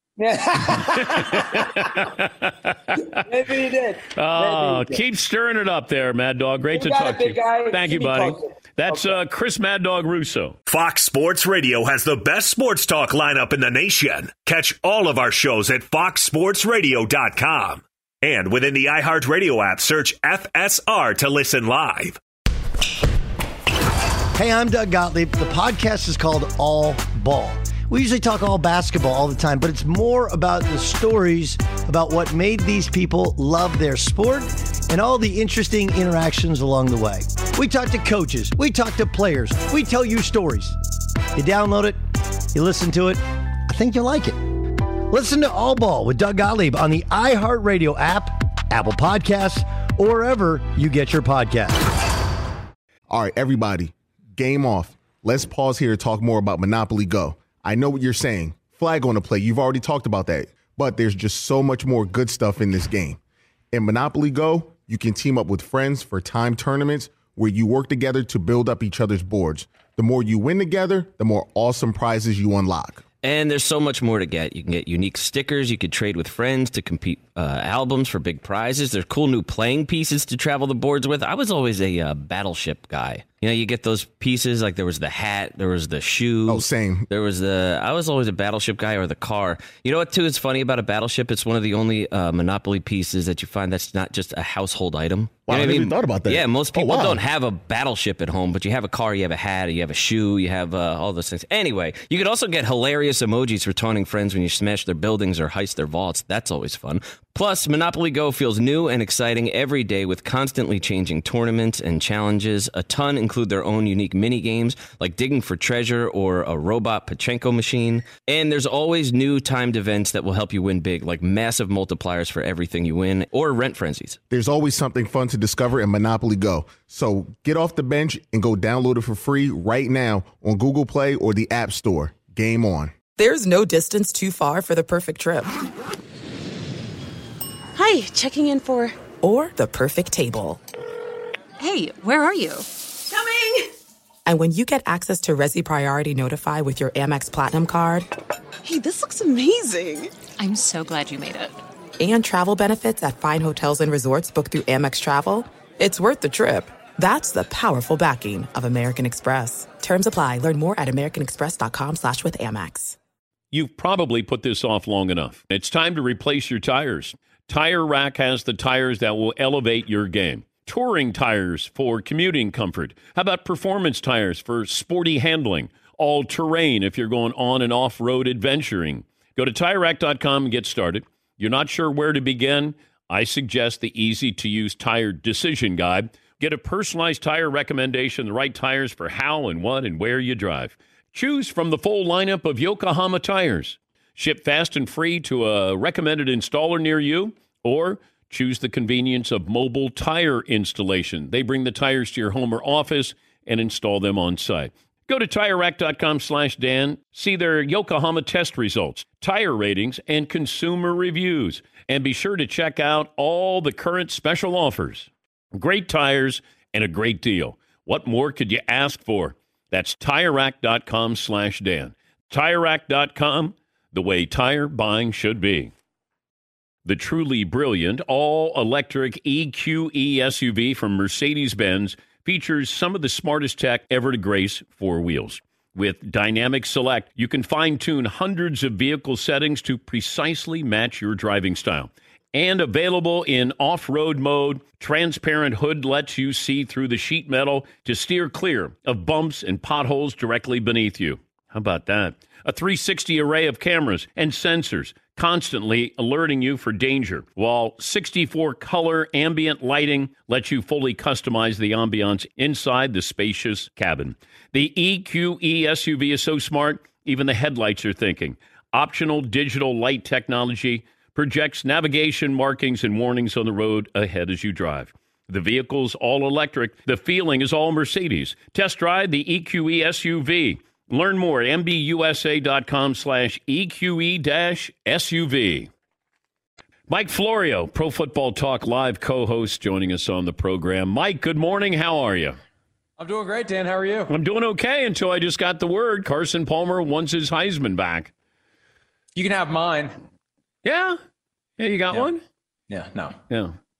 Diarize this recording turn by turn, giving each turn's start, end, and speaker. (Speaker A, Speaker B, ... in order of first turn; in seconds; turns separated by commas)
Speaker A: 0.2-2.0, Speaker B: 0.7-3.2, Speaker A: 3.1-5.0, Speaker B: 4.1-10.6, Speaker A: 6.7-9.2, Speaker C: 10.7-22.2, Speaker D: 24.3-40.8, Speaker D: 41.4-42.0, Speaker D: 42.5-51.9, Speaker E: 53.1-63.2, Speaker E: 63.7-73.0, Speaker F: 73.2-124.2, Speaker E: 86.5-87.1, Speaker E: 95.5-97.2, Speaker E: 124.3-132.9, Speaker G: 133.2-135.6, Speaker G: 137.8-140.6, Speaker H: 137.8-138.2, Speaker H: 141.6-142.7, Speaker G: 144.3-148.1, Speaker G: 148.6-150.1, Speaker H: 150.4-151.6, Speaker G: 152.0-163.0, Speaker B: 163.5-225.7, Speaker B: 226.8-285.7, Speaker B: 286.9-292.4, Speaker I: 293.0-294.1, Speaker B: 294.1-298.1, Speaker I: 299.1-299.9, Speaker B: 300.6-301.0, Speaker B: 301.6-302.2, Speaker I: 302.7-303.2, Speaker B: 303.3-303.6